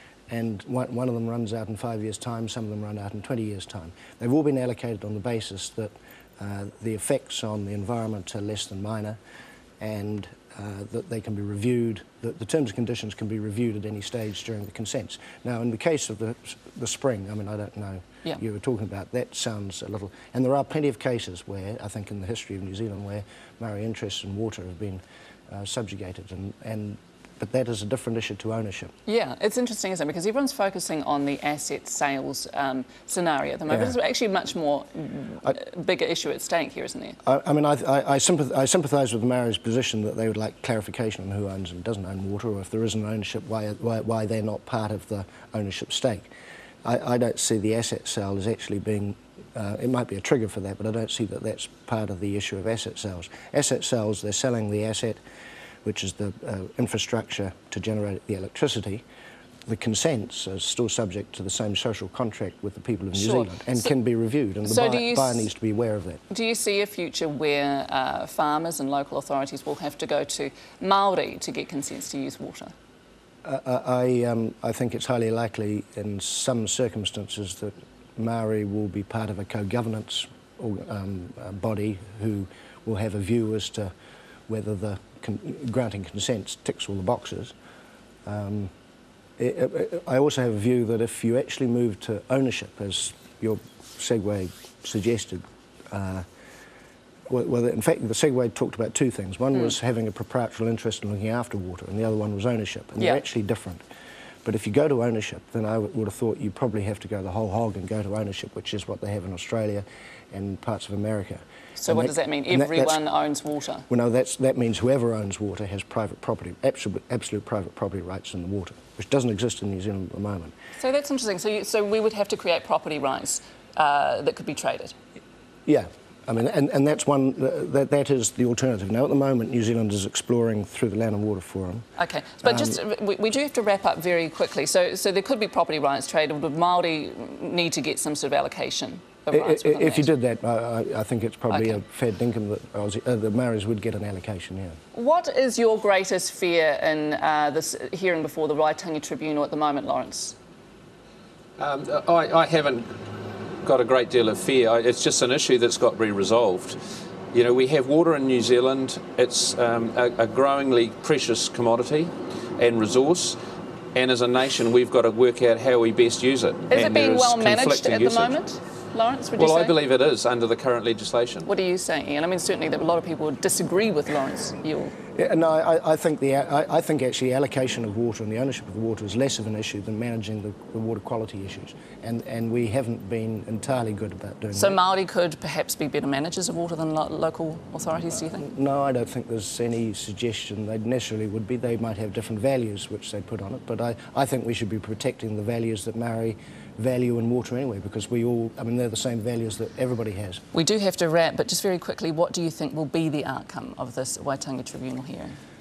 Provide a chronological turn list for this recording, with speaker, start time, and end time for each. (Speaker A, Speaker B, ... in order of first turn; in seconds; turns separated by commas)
Speaker A: 0.3-9.2, Speaker A: 9.8-28.9, Speaker B: 29.1-37.2, Speaker A: 33.7-34.0, Speaker A: 37.2-46.3, Speaker A: 46.8-55.2, Speaker A: 55.8-59.0, Speaker A: 59.7-66.2, Speaker B: 63.1-63.9, Speaker B: 64.7-65.5, Speaker B: 66.3-72.7, Speaker A: 73.4-83.9, Speaker A: 84.5-87.5, Speaker A: 88.3-88.7, Speaker A: 89.4-96.3, Speaker A: 97.3-103.8, Speaker A: 104.5-113.0, Speaker B: 111.8-113.9, Speaker A: 113.9-120.5, Speaker B: 120.8-125.0, Speaker A: 125.7-131.8, Speaker B: 132.0-140.1, Speaker A: 132.4-132.8, Speaker A: 139.3-144.8, Speaker B: 141.5-141.8, Speaker B: 144.9-150.4, Speaker C: 151.6-152.9, Speaker C: 153.6-156.8, Speaker C: 157.3-163.4, Speaker C: 163.9-168.4, Speaker B: 166.7-169.8, Speaker C: 169.4-171.5, Speaker B: 171.5-174.9, Speaker A: 175.2-184.8, Speaker B: 184.5-188.5, Speaker A: 188.4-200.4, Speaker B: 200.5-205.4